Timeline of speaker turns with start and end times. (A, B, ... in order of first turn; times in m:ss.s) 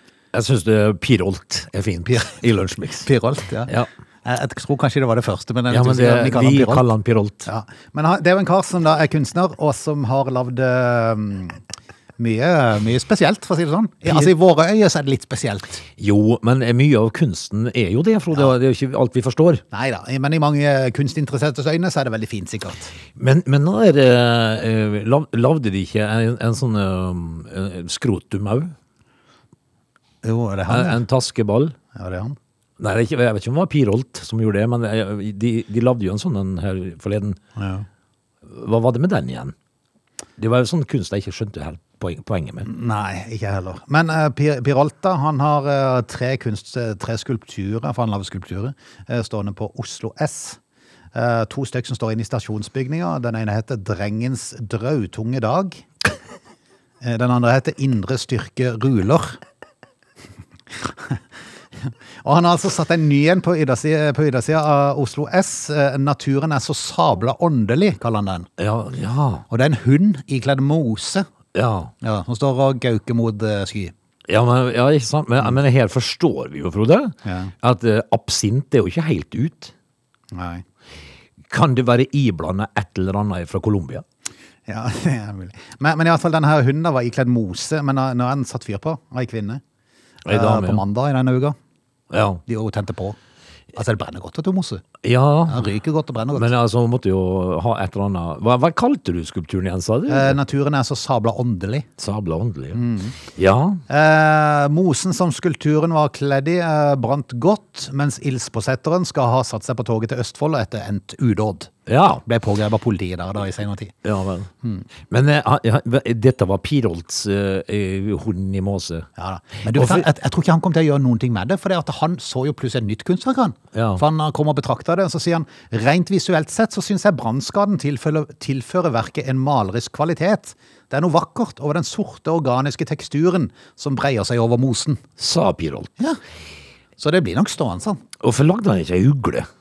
0:00.3-0:03.1 A
0:03.0-0:03.7 B
0:04.2-0:06.9 B
0:05.7-0:07.5 A
0:07.5-0:11.6 B
0:12.2-0:15.8 B
0:16.0-0:19.6 A
0:19.7-0:23.0 B
0:23.2-0:28.8 A
0:30.2-0:31.0 B
0:30.7-0:31.8 A
0:31.9-0:32.4 B
0:32.8-0:37.4 A
0:37.6-0:37.9 B
0:38.4-0:39.6 A
0:40.4-0:42.7 A
0:42.6-0:50.6 B
0:51.1-0:55.9 B
0:57.0-0:59.4 B
1:00.7-1:01.2 B
1:01.8-1:08.5 B
1:08.6-1:09.5 A
1:09.5-1:11.3 B
1:11.5-1:11.9 A
1:12.0-1:13.9 B
1:14.3-1:19.7 A
1:17.2-1:17.5 B
1:20.3-1:20.6 B
1:21.5-1:24.0 A
1:24.7-1:29.6 B
1:30.2-1:30.8 A
1:30.3-1:31.6 B
1:32.1-1:32.4 A
1:32.5-1:33.2 B
1:33.7-1:34.8 B
1:35.0-1:35.7 A
1:35.5-1:36.5 B
1:36.3-1:40.4 A
1:40.1-1:41.9 B
1:42.0-1:43.8 A
1:42.7-1:43.2 B
1:43.9-1:51.7 B
1:51.9-1:52.2 A
1:52.2-1:53.9 B
1:54.0-1:54.5 A
1:55.1-1:59.1 A
1:59.2-2:15.0 B
1:59.7-2:00.1 A
2:03.7-2:04.0 A
2:15.2-2:15.9 A
2:17.0-2:18.0 B
2:18.2-2:19.5 A